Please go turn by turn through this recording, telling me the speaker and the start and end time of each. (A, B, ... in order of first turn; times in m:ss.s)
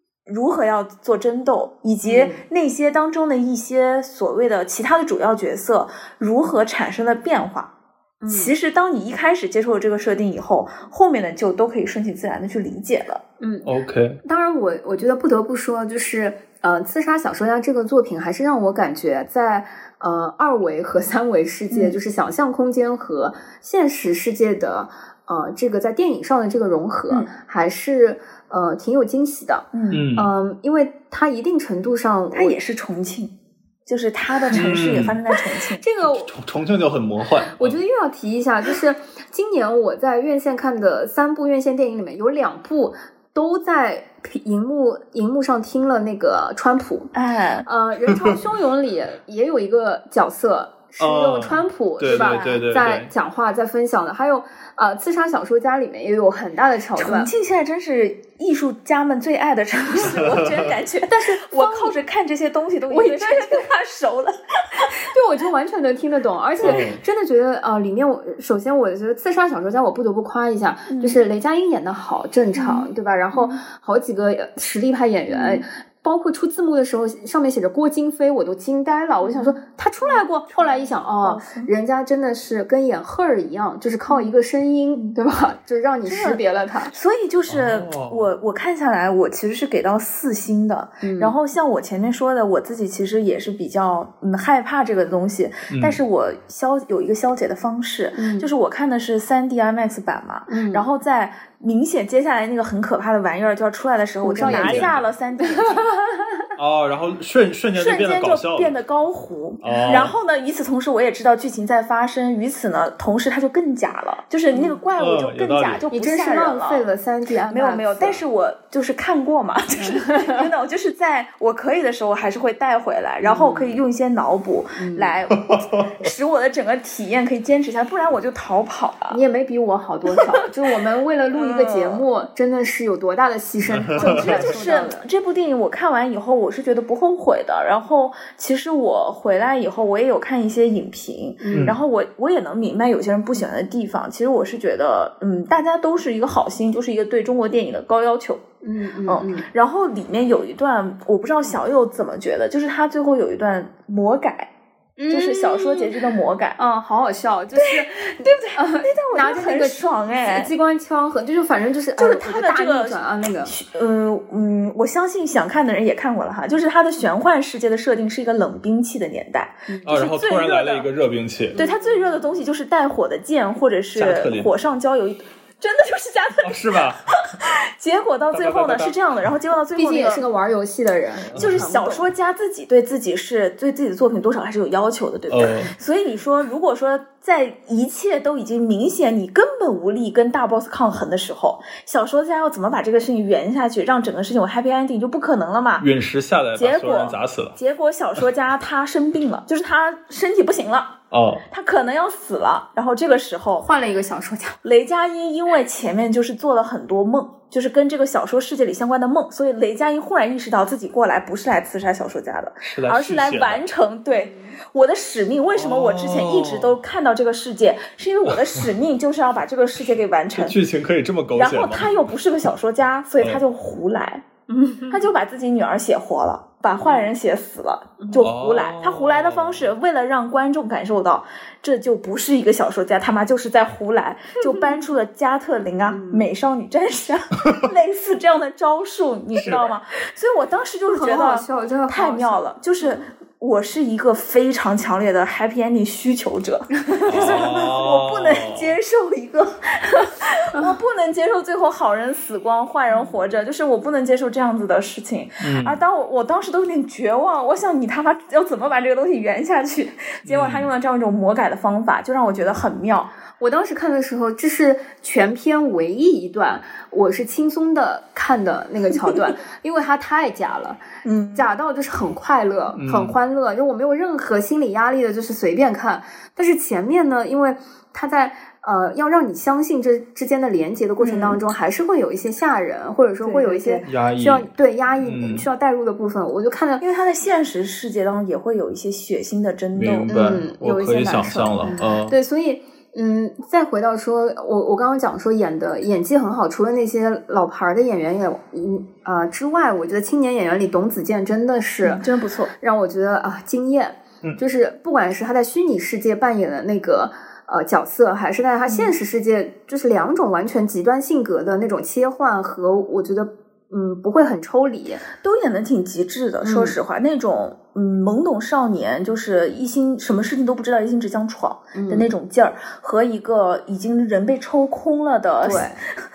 0:00.3-0:07.7 A
0:02.0-0:02.4 B
0:08.2-0:08.5 B
0:08.3-0:13.2 A
0:13.4-0:13.7 B
0:13.6-0:14.2 C
0:14.2-0:32.6 B
0:21.7-0:22.0 A
0:29.7-0:30.0 A
0:29.9-0:30.3 C
0:32.3-0:33.3 A
0:33.8-0:35.8 A
0:34.5-0:35.2 C
0:35.8-0:36.3 B
0:36.0-0:37.8 C
0:37.5-0:47.1 B
0:47.1-0:47.7 A
0:47.6-0:57.3 B
0:48.1-0:48.3 C
0:51.0-0:53.1 C
0:52.0-0:52.6 A
0:57.0-1:05.0 A
1:00.0-1:00.7 C
1:01.1-1:02.0 B
1:02.9-1:03.7 B
1:04.8-1:26.9 B
1:06.6-1:07.0 C
1:10.9-1:11.2 A
1:12.5-1:13.6 A
1:15.3-1:15.6 A
1:19.2-1:21.7 A
1:26.0-1:45.9 A
1:27.5-1:28.3 C
1:31.0-1:31.3 B
1:35.7-1:36.0 C
1:38.2-1:38.5 B
1:40.5-1:40.8 B
1:44.2-1:46.4 B
1:44.4-1:45.0 C
1:46.6-1:48.7 C
1:47.8-1:56.9 A
1:49.6-1:50.1 C
1:54.5-1:54.8 B
1:55.0-1:55.8 C
1:55.9-1:58.2 B
1:57.5-2:09.2 A
1:59.8-2:00.4 B
2:03.2-2:03.8 B
2:04.8-2:05.2 B
2:05.5-2:05.9 C
2:09.1-2:15.0 B
2:11.3-2:12.0 A
2:13.7-2:14.5 C
2:14.0-2:28.4 A
2:21.4-2:21.8 B
2:21.5-2:21.8 C
2:28.6-2:29.5 B
2:29.1-2:34.5 A
2:35.0-2:35.9 B
2:35.1-2:36.6 A
2:36.6-2:43.5 B
2:37.5-2:40.5 A
2:42.0-2:50.9 A
2:49.7-2:49.9 B
2:49.8-2:51.6 C
2:51.5-2:52.1 B
2:51.5-3:00.2 A
2:53.9-2:54.5 C
2:56.4-2:57.0 C
2:58.3-2:59.0 C
2:59.8-3:02.0 B
3:01.3-3:01.6 C
3:01.3-3:15.9 A
3:05.3-3:05.7 C
3:15.8-3:17.6 C
3:16.5-3:23.7 A
3:21.1-3:21.4 C
3:23.6-3:24.6 B
3:24.6-3:40.6 A
3:32.6-3:33.6 C
3:34.1-3:34.5 B
3:35.5-3:36.8 C
3:38.2-3:38.6 C
3:40.4-3:41.9 C
3:41.3-3:44.2 A
3:44.5-3:45.0 B
3:44.9-4:23.1 A
3:46.8-3:47.1 B
3:48.0-3:48.3 B
3:48.2-3:49.7 C
3:55.9-3:56.2 B
3:59.4-3:59.6 C
4:00.9-4:03.0 B
4:07.1-4:08.8 C
4:12.9-4:13.2 B
4:15.4-4:15.8 C
4:20.2-4:20.7 C
4:23.4-4:30.8 B
4:31.0-4:31.5 A
4:31.3-4:46.8 B
4:32.8-4:33.2 C
4:41.0-4:41.4 A
4:43.2-4:43.9 A
4:43.8-4:44.5 C
4:45.0-4:45.5 C
4:46.8-4:50.1 A
4:49.7-4:52.2 C
4:50.1-5:02.0 B
5:01.8-5:02.5 A
5:02.6-5:15.0 B
5:15.2-5:25.7 A
5:16.4-5:16.8 B
5:21.7-5:22.1 B
5:25.4-5:25.8 B